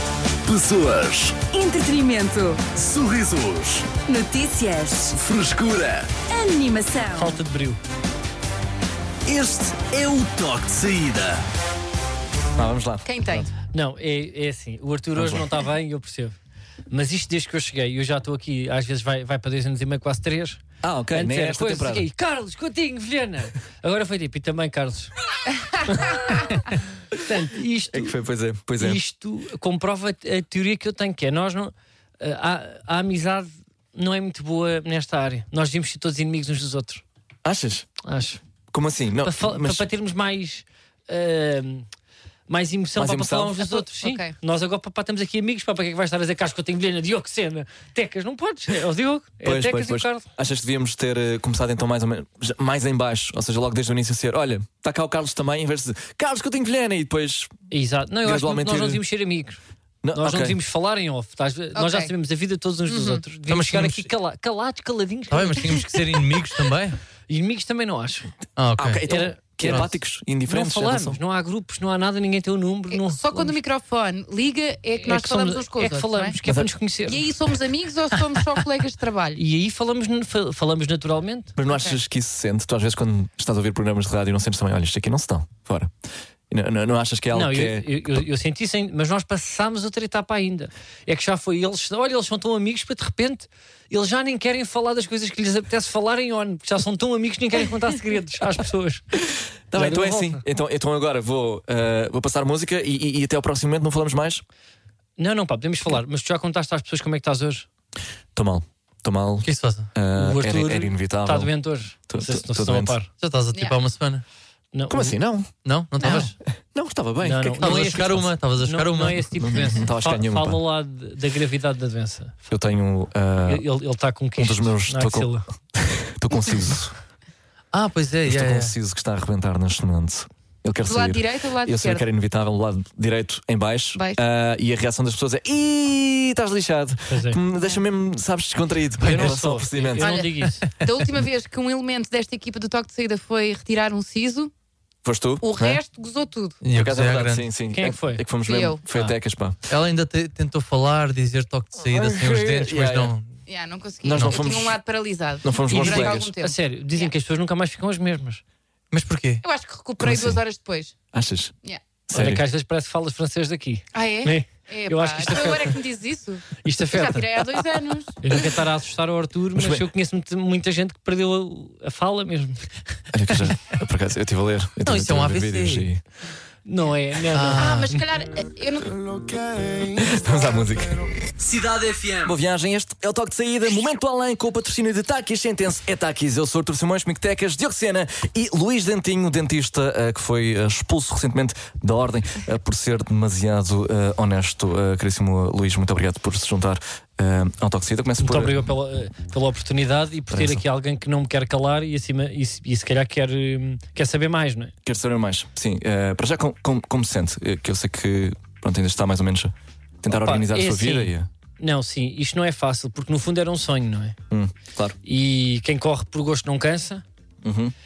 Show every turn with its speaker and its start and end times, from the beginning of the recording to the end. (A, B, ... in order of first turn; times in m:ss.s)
0:00.5-0:01.5 A
0:01.5-0:02.6 B
0:02.7-0:03.9 A
0:04.0-0:05.2 B
0:05.1-0:06.2 A
0:06.3-0:07.4 B
0:07.1-0:07.8 C
0:09.2-0:11.4 A
0:12.6-0:13.0 D
0:13.0-0:13.5 E
0:13.5-0:16.4 C
0:15.2-0:15.4 D
0:16.9-0:20.6 C
0:20.8-0:22.1 D
0:21.1-0:25.1 C
0:25.9-0:26.6 C
0:27.1-0:28.2 C
0:27.9-0:29.0 D
0:28.8-0:37.0 C
0:37.4-0:37.9 D
0:38.0-0:38.4 C
0:38.7-0:39.9 D
0:39.2-0:41.9 C
0:42.5-0:50.3 C
0:43.0-0:43.6 D
0:43.6-0:44.3 E
0:49.4-0:57.5 D
0:57.7-0:59.6 C
0:58.2-0:59.0 D
1:00.0-1:00.6 D
1:00.1-1:05.9 C
1:01.8-1:02.1 E
1:02.9-1:03.2 E
1:03.5-1:04.1 F
1:05.3-1:07.0 F
1:07.3-1:08.3 C
1:08.6-1:09.0 F
1:08.8-1:11.2 D
1:09.0-1:13.6 C
1:09.6-1:09.9 F
1:12.9-1:16.4 E
1:15.0-1:17.2 C
1:17.0-1:19.4 E
1:19.3-1:21.6 C
1:21.6-1:25.9 D
1:21.7-1:22.0 E
1:26.5-1:28.0 D
1:27.3-1:39.0 C
1:39.7-1:44.4 D
1:39.7-1:40.4 C
1:45.2-1:47.7 C
1:48.4-1:51.5 D
1:49.4-1:49.9 F
1:50.1-1:53.1 C
1:52.1-1:53.0 D
1:53.1-1:54.2 F
1:54.7-1:55.2 C
1:54.9-1:57.8 D
1:55.6-1:56.3 F
1:57.2-2:02.4 C
1:57.6-1:59.3 F
1:59.4-2:00.6 D
2:02.5-2:03.6 D
2:03.4-2:05.5 C
2:04.4-2:07.0 D
2:07.7-2:08.8 F
2:08.3-2:20.1 D
2:10.8-2:12.1 E
2:13.9-2:14.2 E
2:17.1-2:17.4 C
2:19.0-2:19.4 F
2:19.0-2:20.7 C
2:20.0-2:24.5 E
2:25.0-2:25.8 D
2:25.4-2:26.6 E
2:26.6-2:27.5 F
2:26.7-2:29.6 D
2:27.7-2:28.3 C
2:28.5-2:28.8 E
2:28.9-2:29.2 C
2:29.7-2:33.3 F
2:31.8-2:33.1 D
2:33.5-2:37.1 E
2:34.0-2:34.8 D
2:34.1-2:34.4 F
2:35.4-2:36.3 D
2:35.7-2:38.4 C
2:38.9-2:39.4 F
2:39.4-2:40.9 E
2:40.0-2:40.4 D
2:41.1-2:41.5 D
2:42.1-2:42.4 D
2:42.1-2:45.8 C
2:43.9-2:48.2 E
2:46.6-2:47.4 C
2:48.2-2:52.7 C
2:49.6-2:49.8 D
2:53.1-2:56.0 D
2:54.8-2:55.9 F
2:56.7-2:58.1 C
2:57.3-2:57.9 F
2:57.4-2:59.3 E
2:59.8-3:01.0 D
3:01.4-3:02.3 F
3:02.2-3:18.6 D
3:18.2-3:24.7 C
3:20.3-3:20.6 D
3:24.8-3:31.3 D
3:30.1-3:34.2 C
3:34.3-3:35.0 D
3:35.0-3:37.0 C
3:37.4-3:37.7 D